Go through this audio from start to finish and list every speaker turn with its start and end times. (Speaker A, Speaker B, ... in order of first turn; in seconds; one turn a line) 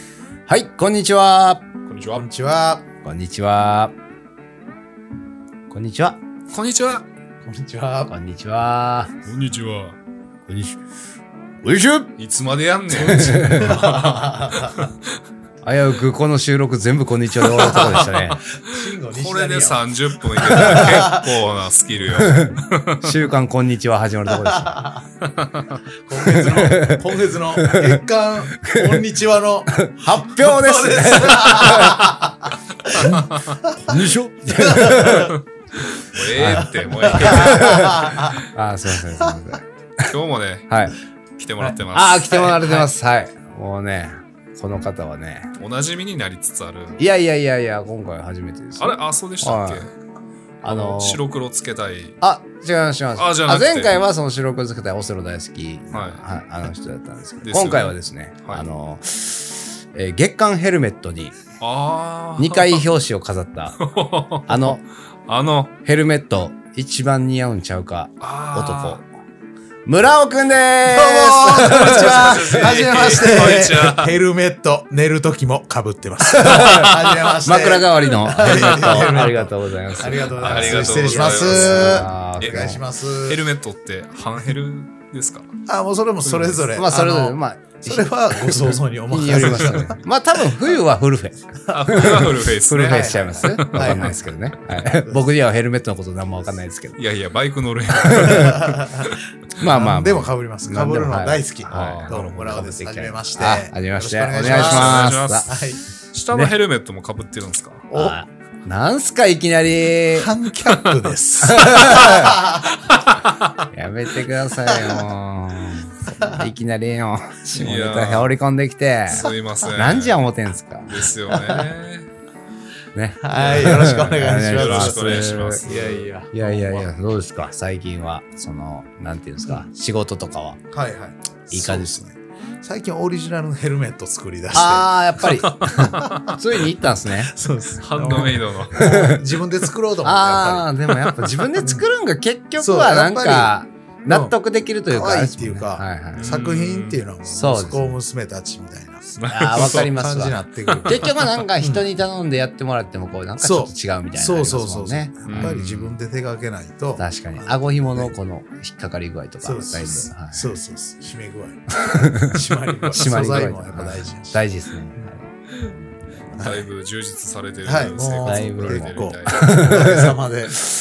Speaker A: 0.5-1.6
Speaker B: 1.9-2.3
Speaker C: 2.2-2.9
Speaker A: 3.0-3.9
Speaker A: 5.7-6.2
Speaker B: 6.5-7.0
Speaker C: 7.4-8.1
Speaker A: 8.1-9.1
Speaker B: 9.2-10.0
Speaker A: 10.5-10.8
Speaker A: 11.6-12.1
Speaker B: 12.2-15.0
Speaker A: 12.9-13.9
Speaker C: 13.4-14.8
Speaker A: 15.6-18.4
Speaker B: 17.4-23.1
Speaker C: 17.5-21.3
Speaker A: 20.5-21.0
Speaker A: 22.1-24.9
Speaker C: 24.3-25.0
Speaker B: 25.2-25.8
Speaker C: 26.1-34.0
Speaker A: 26.1-29.1
Speaker A: 29.7-32.3
Speaker B: 32.8-33.6
Speaker A: 32.9-33.2
Speaker A: 33.8-35.3
Speaker C: 34.5-35.3
Speaker B: 35.1-38.4
Speaker A: 36.3-40.1
Speaker C: 36.5-38.4
Speaker B: 40.1-42.8
Speaker A: 40.7-40.9
Speaker A: 41.9-45.5
Speaker C: 42.3-42.9
Speaker B: 45.6-47.0
Speaker A: 47.0-49.9
Speaker B: 48.8-49.9
Speaker A: 50.6-51.2
Speaker B: 50.6-52.2
Speaker A: 52.2-61.4
Speaker B: 53.1-53.9
Speaker B: 55.9-56.2
Speaker B: 57.4-58.7
Speaker B: 61.6-62.8
Speaker A: 62.4-63.8
Speaker B: 63.8-65.7
Speaker A: 64.5-64.8
Speaker A: 65.8-69.0
Speaker B: 68.2-69.0
Speaker A: 69.8-73.6
Speaker C: 70.8-83.4
Speaker B: 71.6-74.1
Speaker A: 76.3-82.8
Speaker B: 78.4-79.3
Speaker B: 80.3-85.5
Speaker C: 85.7-90.0
Speaker B: 86.2-86.6
Speaker A: 86.7-97.0
Speaker B: 89.3-89.8
Speaker B: 91.7-94.2
Speaker C: 91.9-94.2
Speaker C: 94.7-95.2
Speaker B: 97.0-99.2
Speaker A: 98.0-98.7
Speaker C: 98.4-105.8
Speaker A: 99.6-105.5
Speaker B: 101.7-102.4
Speaker B: 104.4-107.9
Speaker C: 107.9-108.2
Speaker A: 107.9-110.3
Speaker C: 110.1-112.7
Speaker B: 110.7-111.0
Speaker A: 111.4-112.4
Speaker B: 111.6-113.6
Speaker A: 113.7-121.1
Speaker C: 114.7-115.0
Speaker C: 116.2-116.5
Speaker B: 117.5-118.3
Speaker B: 119.1-120.2
Speaker B: 120.8-122.1
Speaker C: 121.3-121.7
Speaker A: 122.9-125.6
Speaker C: 123.2-126.9
Speaker B: 123.3-124.0
Speaker B: 124.5-126.1
Speaker A: 126.3-130.6
Speaker C: 130.7-134.9
Speaker A: 131.5-132.0
Speaker A: 134.5-137.3
Speaker B: 135.2-136.4
Speaker C: 136.0-136.3
Speaker C: 137.3-140.7
Speaker B: 137.8-138.8
Speaker A: 138.7-139.2
Speaker A: 140.0-146.3
Speaker B: 140.9-141.4
Speaker C: 142.6-143.5
Speaker C: 144.1-144.3
Speaker C: 144.9-151.8
Speaker B: 146.1-147.0
Speaker A: 147.3-148.0
Speaker B: 149.1-149.9
Speaker A: 149.3-155.7
Speaker B: 150.7-151.4
Speaker C: 153.4-158.1
Speaker B: 155.2-155.9
Speaker A: 157.0-160.5
Speaker C: 159.4-164.4
Speaker A: 161.7-165.6
Speaker C: 166.3-166.6
Speaker B: 166.3-169.7
Speaker C: 167.6-170.6
Speaker A: 168.2-170.2